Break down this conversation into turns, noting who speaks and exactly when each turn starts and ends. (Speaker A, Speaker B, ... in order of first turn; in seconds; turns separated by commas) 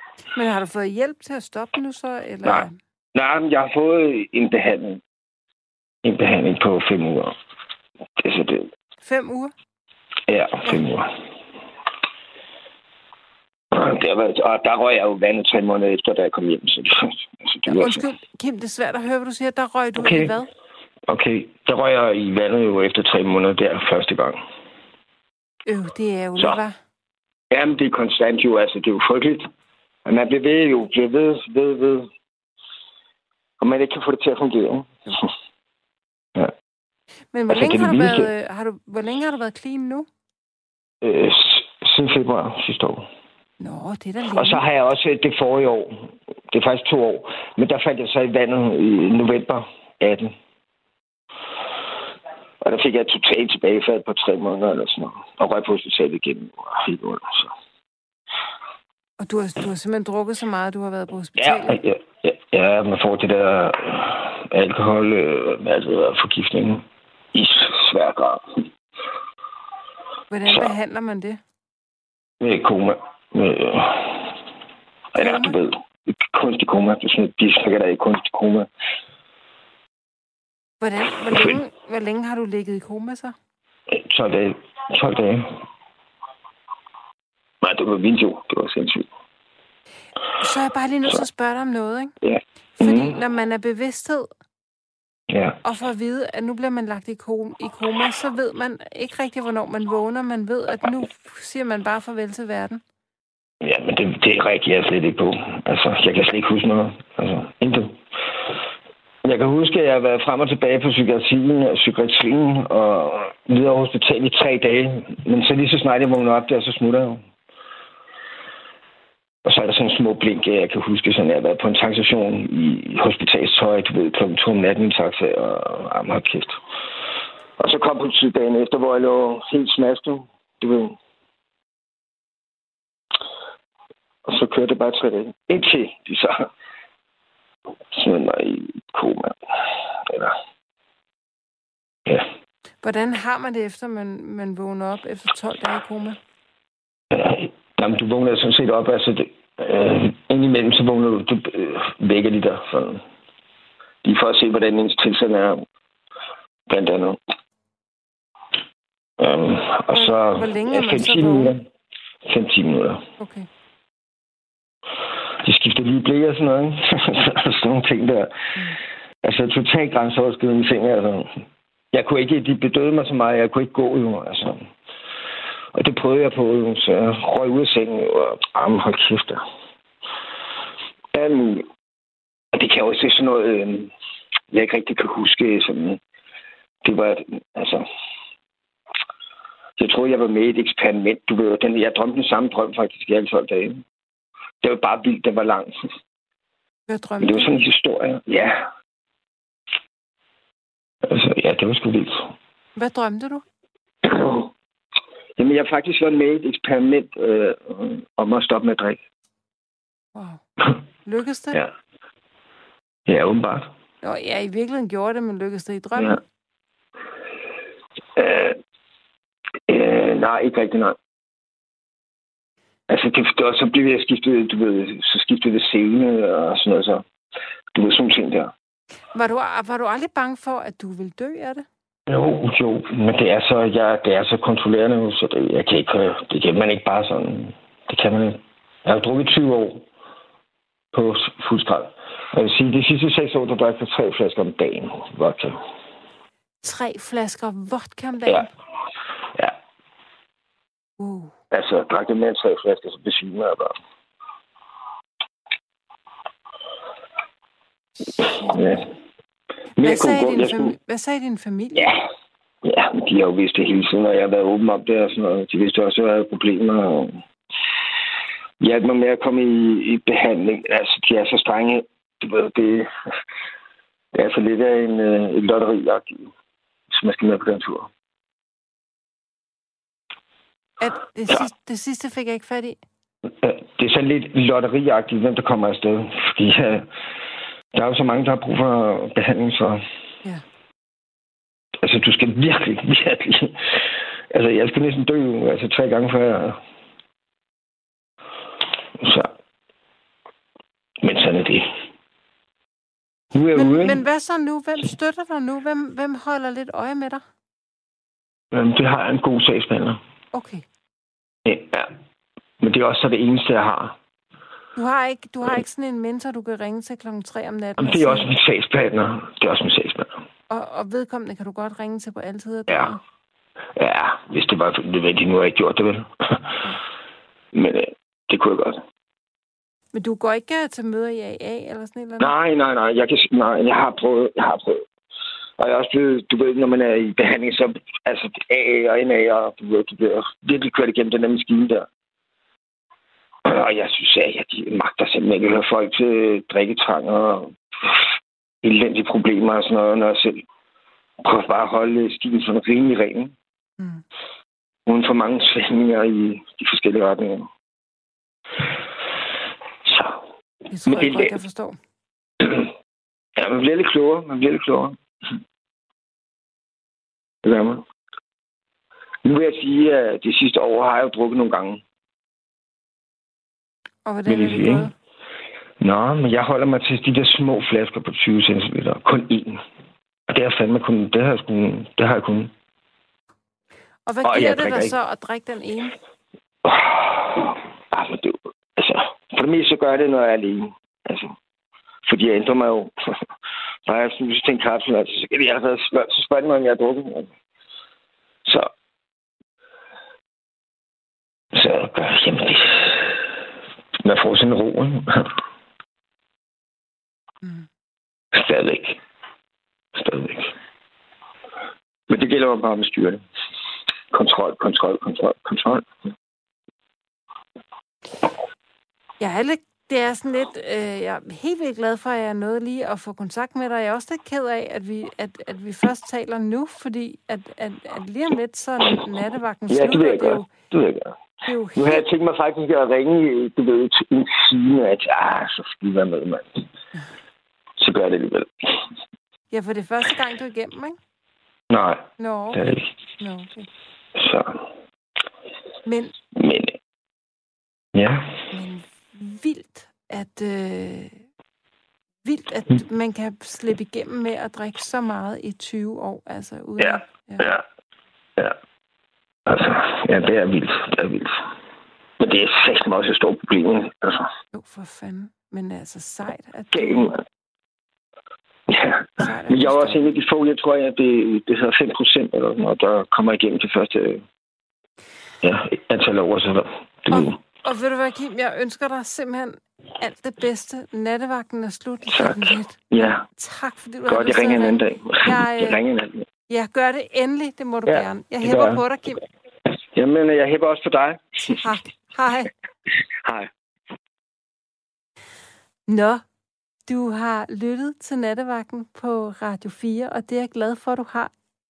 Speaker A: 0.3-2.8, Speaker B: 2.4-5.0, Speaker B: 6.0-7.3, Speaker B: 8.2-8.7, Speaker A: 9.0-9.5, Speaker B: 10.3-11.1, Speaker B: 13.7-18.0, Speaker A: 17.7-20.5, Speaker B: 20.0-20.4, Speaker B: 21.1-24.4, Speaker A: 25.7-26.8, Speaker B: 27.5-29.5, Speaker B: 30.0-32.1, Speaker B: 33.6-34.9, Speaker A: 37.3-40.1, Speaker B: 37.5-38.3, Speaker B: 41.0-43.1, Speaker A: 43.6-44.6, Speaker B: 44.3-50.3, Speaker B: 52.6-57.5, Speaker A: 59.2-61.8, Speaker B: 61.4-68.4, Speaker A: 70.3-71.4, Speaker B: 70.5-70.7, Speaker B: 72.4-74.3, Speaker B: 75.1-78.7, Speaker A: 75.2-75.6, Speaker A: 80.8-83.3, Speaker B: 81.3-81.6, Speaker B: 83.9-85.5, Speaker B: 87.6-89.1, Speaker A: 90.4-92.1, Speaker B: 92.2-93.2, Speaker A: 92.8-94.3, Speaker B: 95.3-95.6, Speaker A: 95.6-102.8, Speaker B: 103.6-108.0, Speaker B: 109.2-117.2, Speaker B: 119.4-126.6, Speaker B: 127.6-130.9, Speaker B: 134.2-136.5, Speaker B: 137.9-139.4, Speaker B: 140.1-140.3, Speaker A: 142.8-146.2, Speaker B: 147.1-153.0, Speaker B: 154.0-155.6, Speaker B: 156.7-157.2, Speaker B: 159.2-161.7, Speaker A: 159.9-161.5, Speaker B: 162.2-163.1, Speaker A: 163.2-163.5, Speaker B: 165.4-168.3, Speaker B: 169.2-174.7, Speaker B: 175.7-179.4, Speaker B: 181.1-181.7, Speaker B: 182.5-183.9, Speaker B: 184.5-186.0, Speaker B: 186.8-187.9, Speaker B: 189.8-193.8, Speaker B: 194.6-195.7, Speaker A: 196.9-197.6, Speaker B: 197.2-198.7, Speaker B: 201.0-202.3, Speaker A: 202.8-203.4, Speaker B: 204.0-204.5, Speaker B: 205.4-209.0, Speaker A: 210.1-210.4, Speaker A: 211.0-211.6, Speaker B: 213.1-213.7, Speaker A: 214.0-216.2, Speaker B: 218.2-218.6, Speaker B: 219.7-221.0, Speaker B: 222.9-227.0, Speaker B: 227.7-228.5, Speaker A: 229.1-231.6, Speaker B: 232.1-239.8, Speaker B: 240.9-245.6, Speaker A: 246.6-248.5, Speaker A: 251.0-251.3, Speaker B: 251.5-253.7, Speaker A: 258.0-258.9, Speaker B: 258.2-258.9, Speaker B: 259.8-260.7, Speaker A: 259.8-261.9, Speaker B: 262.6-267.2, Speaker B: 268.6-272.9, Speaker B: 274.1-276.3, Speaker B: 276.9-277.9, Speaker A: 280.8-282.8, Speaker B: 283.4-286.9, Speaker B: 287.7-289.8, Speaker B: 291.8-296.6, Speaker B: 299.0-299.3, Speaker B: 301.0-301.7, Speaker B: 303.3-304.0, Speaker A: 303.5-307.2, Speaker B: 308.5-310.0, Speaker A: 310.3-310.6, Speaker B: 311.4-311.9, Speaker B: 312.6-314.0, Speaker A: 314.8-318.3, Speaker B: 317.8-320.1, Speaker A: 320.5-323.0, Speaker B: 322.7-322.9, Speaker B: 323.8-326.6, Speaker B: 327.5-328.8, Speaker A: 329.9-332.3, Speaker B: 332.2-334.8, Speaker B: 335.6-341.9, Speaker B: 343.4-348.1, Speaker B: 348.6-350.4, Speaker B: 351.2-353.3, Speaker B: 354.9-357.5, Speaker B: 359.8-360.2, Speaker A: 360.7-361.8, Speaker B: 360.9-361.3, Speaker B: 362.4-362.7, Speaker B: 363.4-365.0, Speaker B: 367.4-367.8, Speaker B: 369.2-371.8, Speaker A: 374.1-374.9, Speaker B: 374.3-374.9, Speaker B: 375.8-379.6, Speaker B: 380.3-382.5, Speaker A: 384.1-385.9, Speaker B: 384.2-384.9, Speaker B: 386.6-391.3, Speaker B: 392.1-392.9, Speaker B: 393.9-397.3, Speaker B: 398.4-398.7, Speaker B: 401.5-403.2, Speaker B: 404.0-405.4, Speaker B: 408.3-409.0, Speaker B: 409.9-410.5, Speaker B: 412.1-413.2, Speaker B: 414.1-415.9, Speaker A: 419.2-430.5, Speaker B: 429.7-431.1, Speaker A: 431.4-432.1, Speaker B: 431.7-436.6, Speaker B: 437.8-438.5, Speaker A: 439.5-441.0, Speaker B: 441.7-442.9, Speaker A: 442.2-443.7, Speaker B: 444.1-444.6, Speaker A: 445.8-446.1, Speaker B: 446.3-446.8, Speaker B: 447.9-448.4, Speaker A: 448.5-451.2, Speaker A: 452.2-457.5, Speaker B: 456.8-457.6, Speaker B: 459.4-461.4, Speaker B: 462.2-464.3, Speaker A: 464.5-467.2, Speaker B: 466.7-467.2, Speaker B: 468.7-474.2, Speaker A: 469.2-470.1, Speaker B: 475.4-477.4, Speaker A: 477.1-485.8, Speaker B: 482.1-483.2, Speaker B: 484.1-486.3, Speaker A: 486.5-489.2, Speaker B: 487.9-488.8, Speaker B: 489.9-491.6, Speaker A: 491.4-492.5, Speaker B: 493.2-493.5, Speaker A: 495.9-496.2, Speaker A: 496.9-501.3